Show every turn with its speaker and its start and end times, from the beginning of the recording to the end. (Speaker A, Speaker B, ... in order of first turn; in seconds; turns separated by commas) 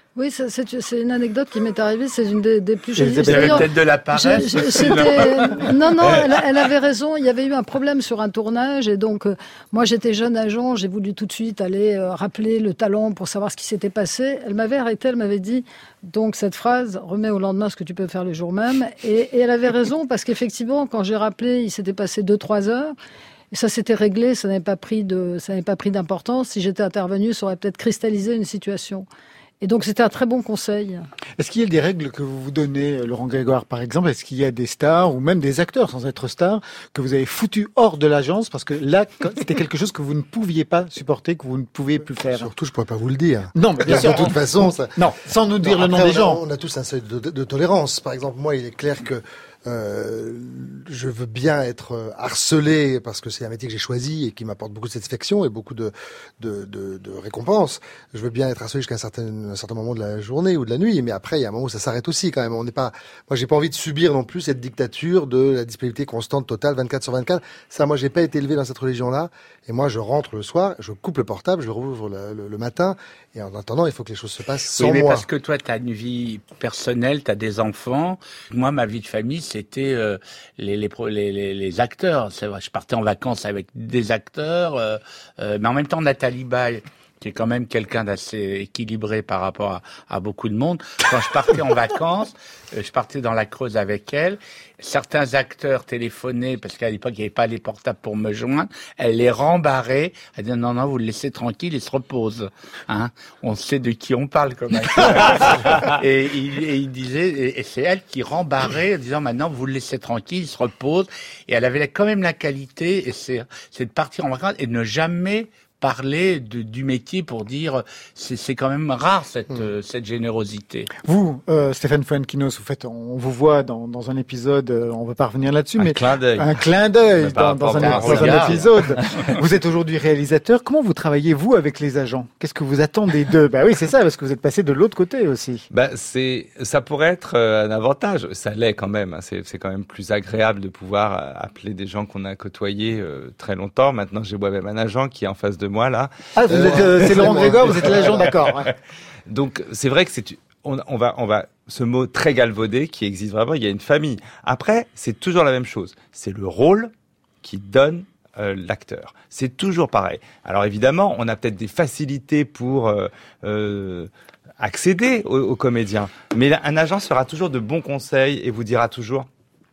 Speaker A: 0.1-22.9, Speaker B: 3.0-3.6, Speaker C: 3.2-6.3, Speaker A: 23.5-29.1, Speaker A: 29.6-31.1, Speaker B: 31.4-42.5, Speaker D: 42.3-45.0, Speaker B: 43.5-46.4, Speaker D: 45.6-75.3, Speaker C: 74.8-120.9, Speaker B: 121.0-135.6, Speaker E: 125.8-126.6, Speaker E: 127.2-129.3, Speaker C: 127.8-128.7, Speaker E: 135.7-148.5, Speaker B: 146.3-148.7, Speaker D: 146.5-148.3, Speaker E: 149.3-156.9, Speaker E: 157.4-169.3